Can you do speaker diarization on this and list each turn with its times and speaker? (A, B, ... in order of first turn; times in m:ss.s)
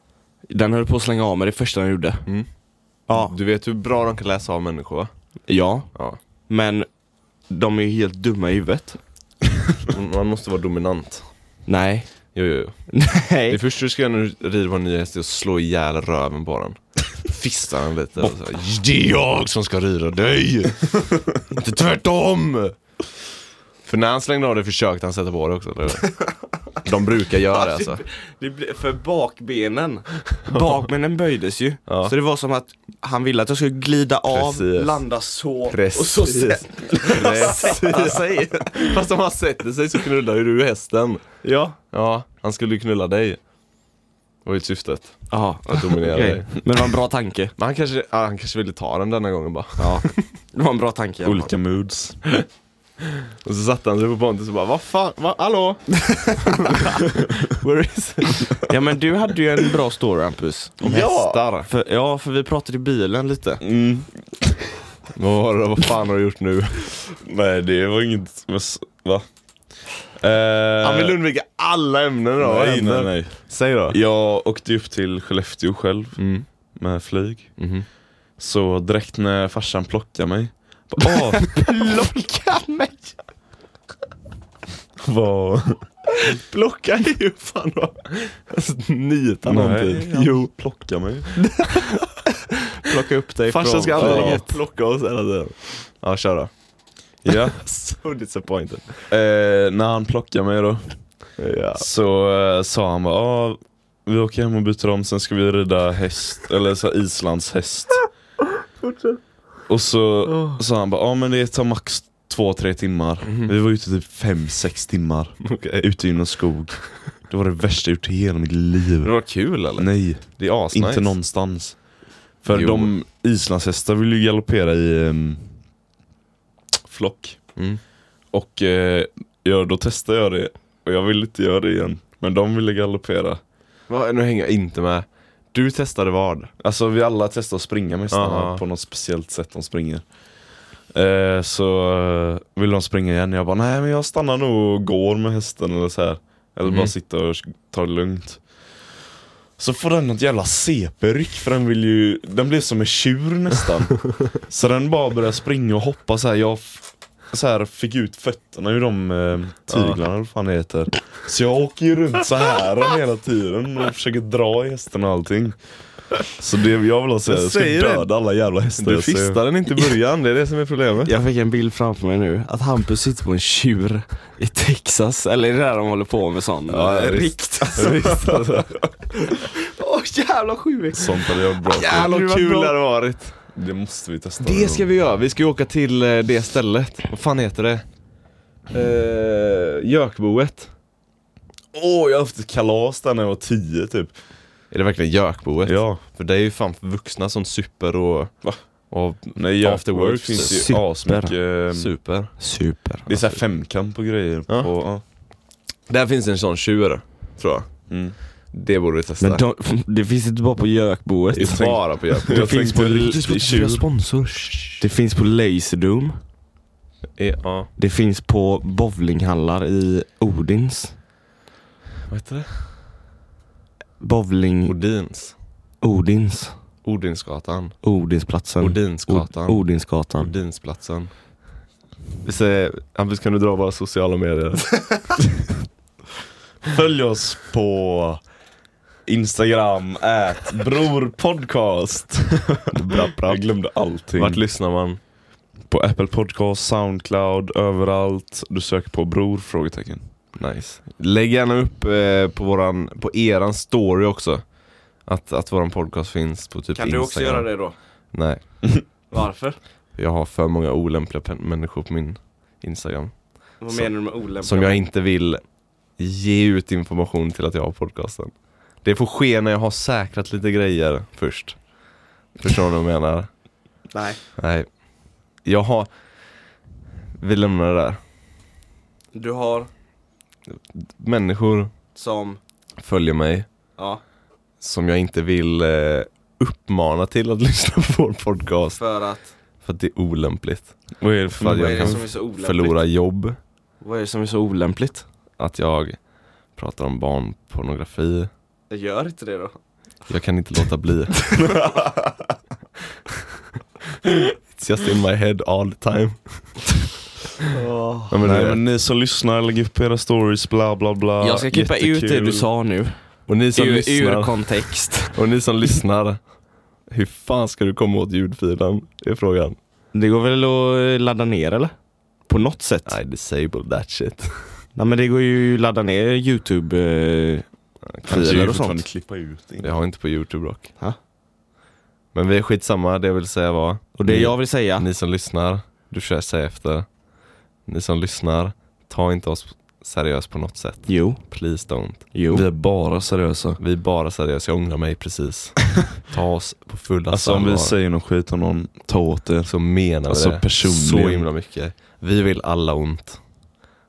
0:00.5-0:02.2 A
0:03.1-0:03.4 A
0:03.1-0:05.1 B
0:05.5-0:06.9 A
0:07.5-0:09.0 A
0:09.9-0:11.3 B
0:11.7-0:12.3 A
0:12.4-0:12.9 B
0:12.9-0:13.6 A
0:13.5-0:22.8 B
0:23.8-0:26.1 B
0:26.8-0:28.0 B
0:27.5-0:38.9 A
0:31.9-0:32.1 B
0:34.3-0:35.0 B
0:35.7-0:41.4 B
0:41.4-0:41.8 A
0:41.9-0:43.4 B
0:44.4-0:46.6 B
0:45.3-0:47.5 A
0:47.6-0:50.3 B
0:49.8-0:51.5 A
0:51.2-0:52.2 C
0:53.4-0:55.8 B
0:56.0-0:57.0 A
0:56.4-0:58.7 B
0:58.4-1:03.6 A
1:00.8-1:01.3 C
1:00.8-1:01.7 B
1:03.6-1:04.1 C
1:05.1-1:06.8 B
1:07.2-1:09.3 C
1:10.2-1:11.2 C
1:10.8-1:14.0 B
1:12.4-1:17.6 C
1:16.2-1:16.5 B
1:17.6-1:17.9 B
1:18.4-1:21.5 C
1:21.0-1:23.2 A
1:25.0-1:25.8 C
1:26.3-1:30.5 B
1:29.4-1:31.3 C
1:31.4-1:32.2 A
1:32.7-1:34.5 A
1:33.5-1:36.5 B
1:34.0-1:34.4 C
1:37.2-1:37.6 C
1:37.3-1:39.0 B
1:39.1-1:41.0 C
1:41.4-1:41.8 B
1:41.8-1:48.0 C
1:48.8-1:49.2 B
1:49.7-1:59.2 C
1:50.3-1:50.6 B
1:53.2-1:53.5 B
1:55.4-1:55.9 B
1:59.0-2:01.2 B
1:59.7-2:05.5 C
2:02.5-2:02.9 B
2:06.8-2:07.4 C
2:07.6-2:07.8 B
2:08.3-2:13.4 C
2:13.9-2:16.5 B
2:16.6-2:20.1 C
2:18.1-2:18.6 B
2:20.9-2:28.5 C
2:26.6-2:26.9 B
2:29.6-2:45.6 C
2:39.7-2:40.0 B
2:46.3-2:49.4 C
2:47.3-2:48.1 B
2:48.8-2:51.1 B
2:51.1-2:57.9 A
2:56.7-2:58.8 B
2:57.8-2:58.7 C
2:59.2-3:02.8 A
3:00.9-3:02.1 C
3:01.7-3:03.4 B
3:03.5-3:04.9 C
3:04.4-3:07.8 B
3:08.7-3:10.7 B
3:11.7-3:14.2 C
3:14.7-3:20.7 B
3:15.6-3:16.0 C
3:19.3-3:21.9 C
3:20.4-3:21.4 A
3:21.7-3:22.4 B
3:22.4-3:23.1 A
3:23.1-3:25.0 C
3:25.9-3:27.9 B
3:27.9-3:28.2 C
3:28.5-3:29.4 B
3:29.2-3:33.5 A
3:31.3-3:34.8 B
3:31.4-3:33.8 C
3:34.8-3:36.2 A
3:37.2-3:37.7 B
3:37.8-3:41.0 A
3:42.1-3:42.7 B
3:44.0-3:44.8 A
3:44.7-3:45.4 B
3:45.8-3:46.6 A
3:46.8-3:47.8 B
3:47.8-3:50.3 A
3:48.6-3:49.7 B
3:50.2-3:51.1 B
3:52.2-3:55.2 B
3:56.7-3:58.2 C
3:59.1-4:04.4 C
4:02.7-4:03.4 B
4:04.2-4:05.0 B
4:05.7-4:10.0 C
4:10.4-4:18.7 B
4:16.8-4:17.8 A
4:19.1-4:19.6 A
4:20.0-4:25.4 B
4:23.6-4:24.8 A
4:26.0-4:31.6 B
4:32.4-4:33.3 B
4:33.9-4:34.2 A
4:34.4-4:34.7 B
4:35.4-4:35.9 B
4:37.2-4:38.0 B
4:39.1-4:39.7 A
4:40.8-4:41.7 B
4:41.9-4:42.4 A
4:42.8-4:43.5 B
4:44.6-4:48.8 B
4:48.8-4:49.3 A
4:49.6-4:53.4 B
4:51.0-4:52.0 C
4:51.6-4:52.8 A
4:53.8-4:55.0 A
4:55.4-4:58.3 B
4:58.7-4:59.6 A
5:00.1-5:01.4 B
5:01.4-5:02.1 C
5:04.0-5:06.8 B
5:07.5-5:08.1 A
5:08.1-5:08.6 B
5:08.2-5:12.5 C
5:11.2-5:15.1 A
5:13.3-5:16.3 B
5:16.9-5:19.6 B
5:19.9-5:21.7 A
5:22.3-5:23.0 A
5:22.9-5:24.6 B
5:24.8-5:27.5 A
5:27.9-5:28.4 B
5:28.0-5:28.8 A
5:28.1-5:29.7 C
5:29.6-5:30.7 B
5:32.1-5:36.9 B
5:34.0-5:34.9 A
5:37.6-5:42.1 B
5:40.9-5:41.2 A
5:42.1-5:42.4 A
5:42.3-5:43.6 C
5:43.6-5:47.8 B
5:47.1-5:51.3 C
5:49.5-5:53.2 B